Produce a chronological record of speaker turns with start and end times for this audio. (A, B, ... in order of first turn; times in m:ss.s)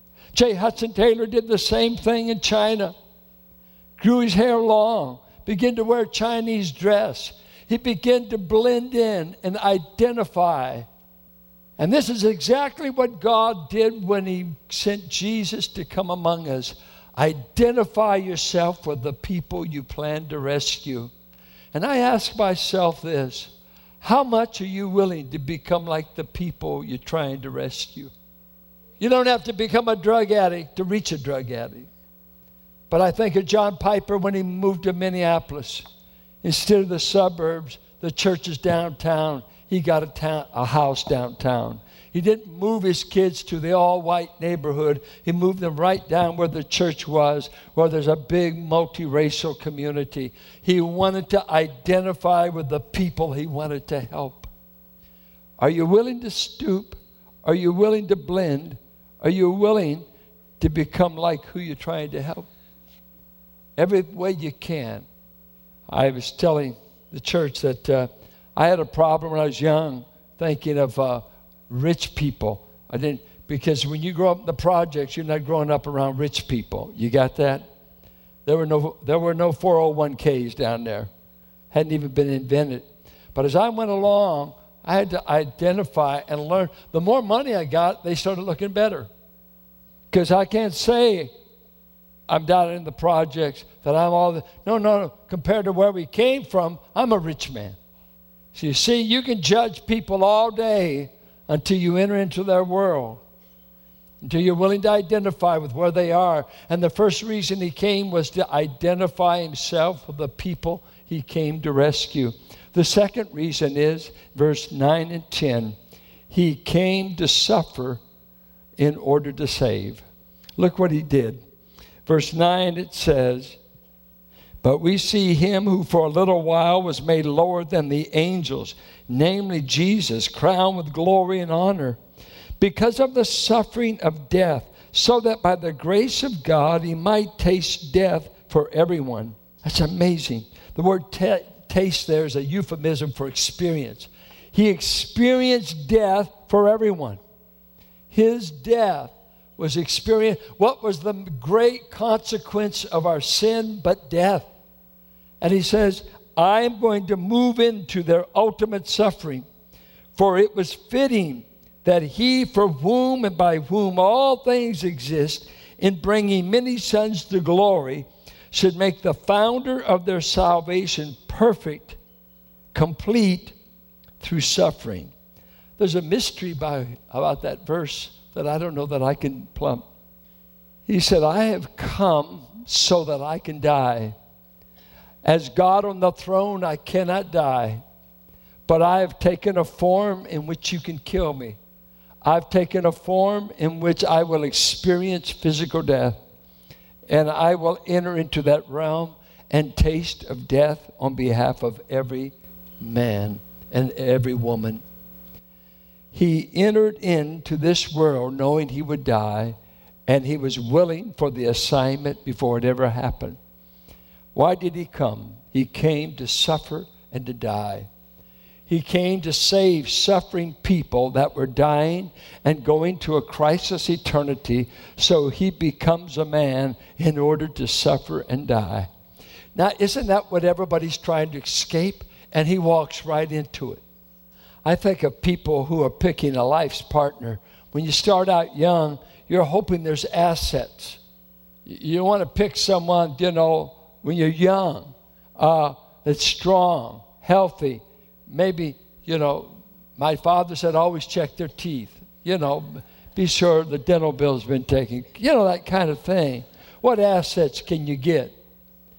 0:00.3-0:02.9 A
0:04.0-0:10.9 A
0:11.8-0:21.1 A
0:21.7-0:28.1 A
0:29.0-0:31.9 A
0:32.9-0:35.8 A
0:36.4-0:54.5 A
0:55.6-1:00.0 A
1:00.6-1:02.5 A
1:03.8-1:05.0 A
1:05.9-1:17.6 A
1:18.4-1:21.1 A
1:21.7-1:29.1 A
1:30.1-1:31.3 A
1:32.3-1:37.8 A
1:38.5-1:43.2 A
1:44.2-1:55.8 A
1:56.3-1:58.0 A
1:58.8-2:00.0 A
2:00.6-2:01.4 A
2:02.0-2:03.6 A
2:04.6-2:12.0 A
2:12.6-2:27.2 A
2:28.1-2:34.5 A
2:35.4-2:39.4 A
2:40.1-2:52.0 A
2:52.7-2:53.5 A
2:54.2-2:55.1 A
2:55.8-2:59.8 A
3:00.9-3:04.1 A
3:05.2-3:07.8 A
3:08.7-3:11.6 A
3:12.2-3:16.2 A
3:17.1-3:24.8 A
3:26.1-3:33.4 A
3:34.3-3:37.9 A
3:38.7-3:48.9 A
3:49.5-3:53.8 A
3:54.6-4:01.0 A
4:01.6-4:18.4 A